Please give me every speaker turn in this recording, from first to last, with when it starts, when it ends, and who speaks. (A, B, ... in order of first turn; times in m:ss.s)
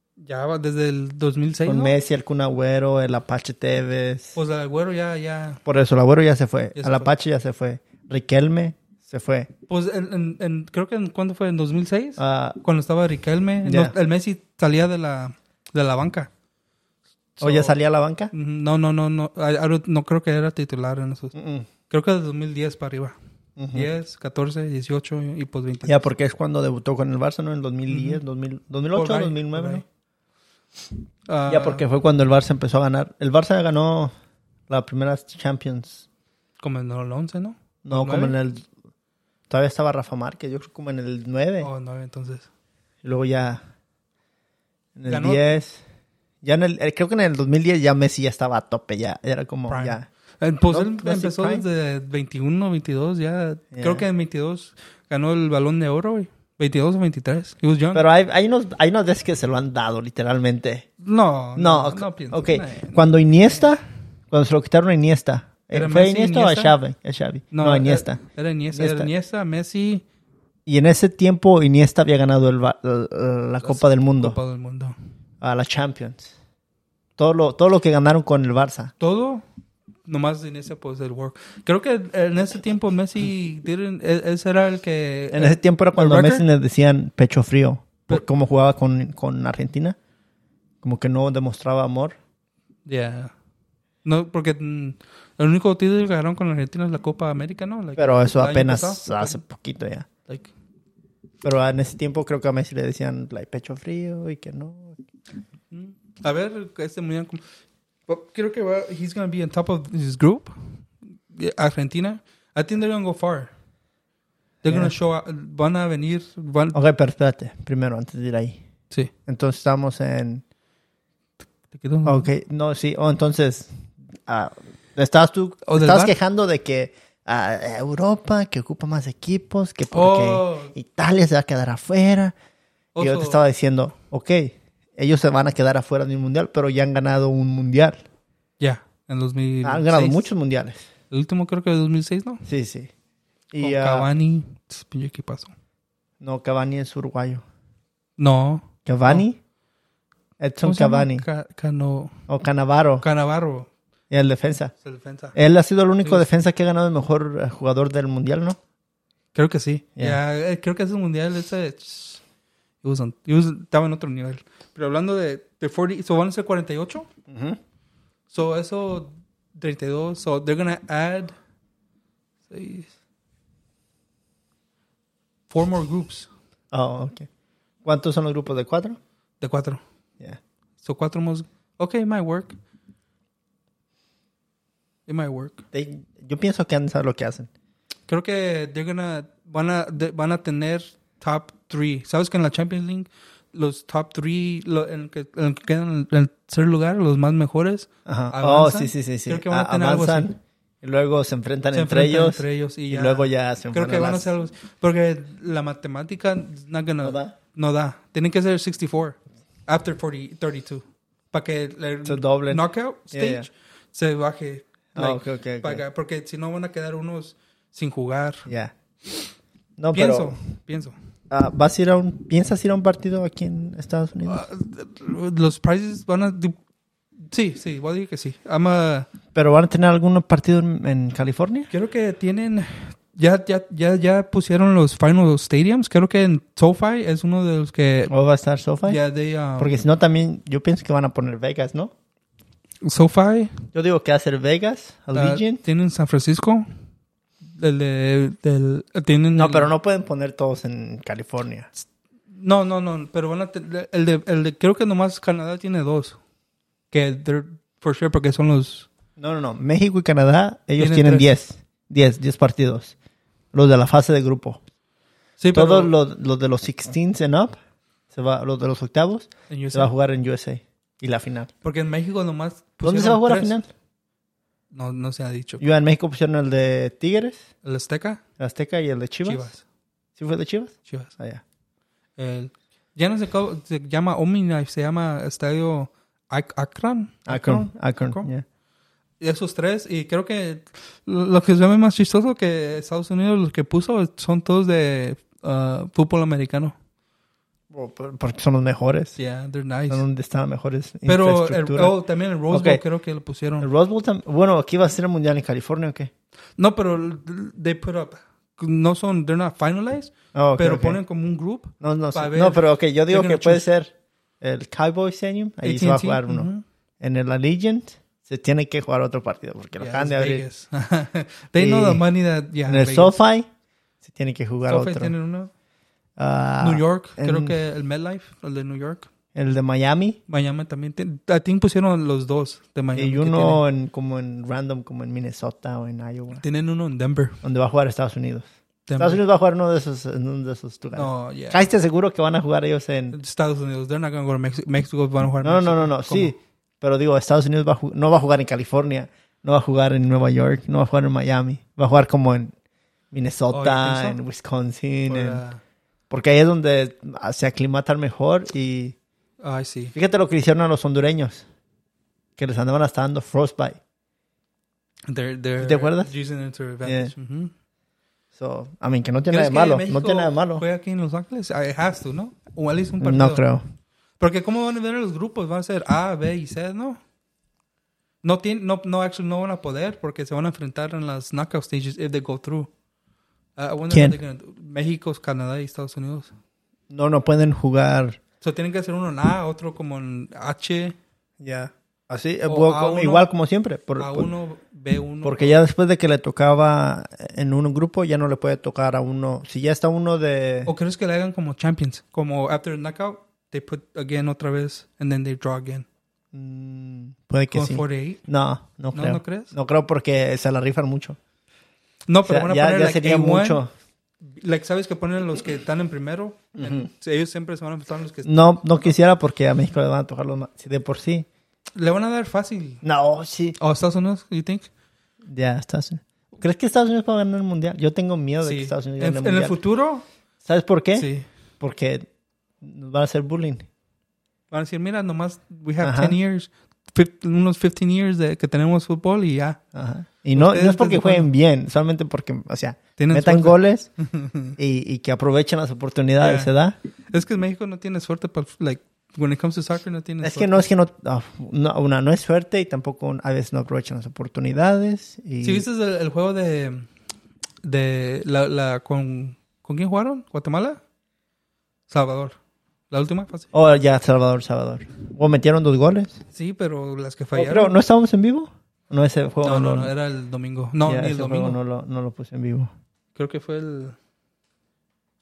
0:00.2-0:01.9 A
0:01.6-0:04.4 B
0:04.3-0:05.6 A
0:05.6-0:09.5 B
0:06.7-0:07.1 A
0:09.7-0:16.3 A
0:12.2-0:12.6 B
0:13.6-0:13.9 B
0:17.4-0:17.8 A
0:17.4-0:18.3 B
0:18.3-0:21.3 A
0:21.3-0:21.7 B
0:21.9-0:23.2 A
0:23.6-0:23.9 B
0:23.7-0:26.0 A
0:25.8-0:29.8 B
0:27.9-0:28.2 A
0:28.9-0:29.8 A
0:31.3-0:31.8 A
0:31.5-0:34.1 B
0:34.7-0:36.0 B
0:36.6-0:38.4 A
0:37.8-0:38.7 B
0:39.5-0:41.7 B
0:41.6-0:42.5 A
0:43.0-0:43.6 B
0:45.0-0:45.8 B
0:45.1-0:45.5 A
0:46.4-0:50.1 B
0:49.7-0:58.0 A
0:50.7-0:51.6 B
0:53.7-0:54.0 B
0:57.9-1:00.9 B
1:01.0-1:03.6 A
1:01.6-1:08.2 B
1:05.7-1:06.8 A
1:07.5-1:10.0 A
1:08.7-1:09.1 B
1:10.6-1:14.4 B
1:13.6-1:15.0 A
1:15.4-1:16.3 B
1:17.2-1:18.9 B
1:19.0-1:19.4 A
1:20.0-1:26.4 A
1:25.3-1:30.0 B
1:30.8-1:32.2 B
1:32.8-1:33.3 A
1:34.0-1:39.4 A
1:38.0-1:40.1 B
1:41.4-1:45.0 B
1:45.7-1:47.4 A
1:48.1-1:53.5 A
1:54.6-1:56.8 A
1:54.6-1:54.9 B
1:56.7-1:58.6 B
1:59.2-2:00.4 B
2:01.7-2:02.3 A
2:02.0-2:12.3 B
2:05.6-2:06.1 A
2:09.9-2:10.7 A
2:12.9-2:13.4 A
2:13.0-2:18.0 B
2:18.6-2:20.3 A
2:19.6-2:20.9 B
2:21.1-2:22.4 A
2:22.4-2:22.9 B
2:23.5-2:24.1 B
2:23.6-2:25.5 A
2:26.2-2:27.4 B
2:28.2-2:29.2 A
2:28.8-2:29.4 B
2:30.4-2:31.2 B
2:30.6-2:32.2 A
2:32.3-2:33.0 B
2:33.0-2:33.7 A
2:34.1-2:34.7 B
2:34.8-2:35.4 A
2:35.3-2:38.6 B
2:39.3-2:42.2 A
2:42.8-2:47.1 A
2:47.3-2:47.6 B
2:48.3-2:51.3 A
2:52.5-2:52.9 A
2:55.5-2:56.3 A
2:56.7-2:57.3 B
2:57.8-2:59.0 B
2:59.4-2:59.8 A
3:00.8-3:02.5 A
3:05.1-3:05.6 A
3:05.7-3:07.5 B
3:08.1-3:20.3 A
3:18.0-3:24.3 B
3:21.7-3:38.5 A
3:27.0-3:27.3 B
3:32.0-3:33.5 B
3:34.9-3:35.8 B
3:38.4-3:38.7 B
3:39.8-3:40.4 B
3:39.9-3:41.0 A
3:41.3-3:44.4 B
3:44.2-3:46.6 A
3:47.2-3:49.1 A
3:49.3-3:51.7 B
3:51.7-3:58.1 A
3:58.1-3:59.0 B
3:58.8-3:59.7 A
3:59.6-4:01.9 B
4:02.8-4:03.6 A
4:03.7-4:05.6 B
4:05.1-4:06.6 A
4:07.5-4:09.7 A
4:09.3-4:11.7 B
4:12.3-4:16.2 A
4:16.9-4:18.9 A
4:19.2-4:22.9 B
4:20.8-4:21.3 A
4:23.5-4:24.6 B
4:25.4-4:25.9 A
4:25.5-4:27.6 B
4:28.1-4:31.5 B
4:29.5-4:29.9 A
4:31.6-4:33.5 A
4:32.8-4:33.7 B
4:34.7-4:35.6 A
4:35.6-4:37.4 B
4:37.6-4:38.2 A
4:38.4-4:39.5 B
4:39.2-4:39.6 A
4:40.2-4:41.4 B
4:40.8-4:41.1 A
4:42.2-4:48.3 A
4:47.3-4:48.4 B
4:49.2-4:56.7 A
4:57.7-4:59.2 B
4:59.2-5:00.0 A
4:59.9-5:02.0 B
5:01.0-5:03.7 A
5:02.5-5:02.8 B
5:03.6-5:06.1 B
5:06.6-5:13.7 A
5:10.3-5:11.0 B
5:11.8-5:20.4 B
5:15.6-5:16.6 A
5:19.8-5:23.2 A
5:21.6-5:22.0 B
5:22.7-5:23.5 B
5:24.0-5:25.1 B
5:24.7-5:25.5 A
5:26.2-5:27.6 B
5:26.6-5:29.1 A
5:29.3-5:30.2 B
5:30.3-5:33.6 A
5:32.9-5:36.4 B
5:36.4-5:37.4 A
5:37.4-5:43.2 B
5:38.9-5:39.2 A
5:40.9-5:41.6 A
5:43.1-5:46.3 A
5:45.4-5:52.5 B
5:53.1-5:55.4 B
5:53.5-5:54.2 A
5:55.1-5:55.6 A
5:56.1-5:59.0 B
5:59.4-5:59.9 A
5:59.9-6:01.4 B
6:02.4-6:03.8 B
6:05.1-6:07.5 A
6:05.6-6:06.1 B
6:06.8-6:07.1 B
6:08.3-6:10.6 B
6:09.3-6:13.4 A
6:13.0-6:13.6 B
6:14.2-6:17.0 A
6:18.2-6:22.7 A
6:23.6-6:26.3 A
6:23.9-6:24.2 B
6:26.9-6:28.2 B
6:28.4-6:31.0 A
6:31.4-6:34.3 B
6:32.4-6:33.3 A
6:34.0-6:35.6 A
6:35.2-6:40.7 B
6:40.6-6:45.8 A
6:46.3-6:51.2 B
6:47.5-6:48.2 A
6:48.9-6:49.5 A
6:52.1-6:53.6 A
6:52.2-6:53.7 B
6:54.2-6:58.9 A
6:56.5-6:56.9 B
6:58.2-7:01.3 B
7:01.7-7:02.8 A
7:02.8-7:03.6 B
7:03.6-7:04.7 A
7:05.3-7:09.6 B
7:08.4-7:10.0 A
7:10.4-7:12.0 B
7:11.0-7:11.3 A
7:12.6-7:13.6 B
7:14.5-7:19.6 A
7:15.8-7:16.2 B
7:19.7-7:23.9 B
7:20.3-7:21.3 A
7:23.0-7:24.6 A
7:24.6-7:26.7 B
7:26.2-7:26.5 A
7:27.1-7:30.6 A
7:30.2-7:35.6 B
7:35.4-7:36.9 A
7:37.6-7:40.8 A
7:41.9-7:42.4 A
7:42.9-7:43.5 A
7:43.5-7:46.2 B
7:46.3-7:47.7 A
7:47.3-7:49.9 B
7:49.4-7:51.6 A
7:50.8-7:52.7 B
7:53.1-7:54.0 A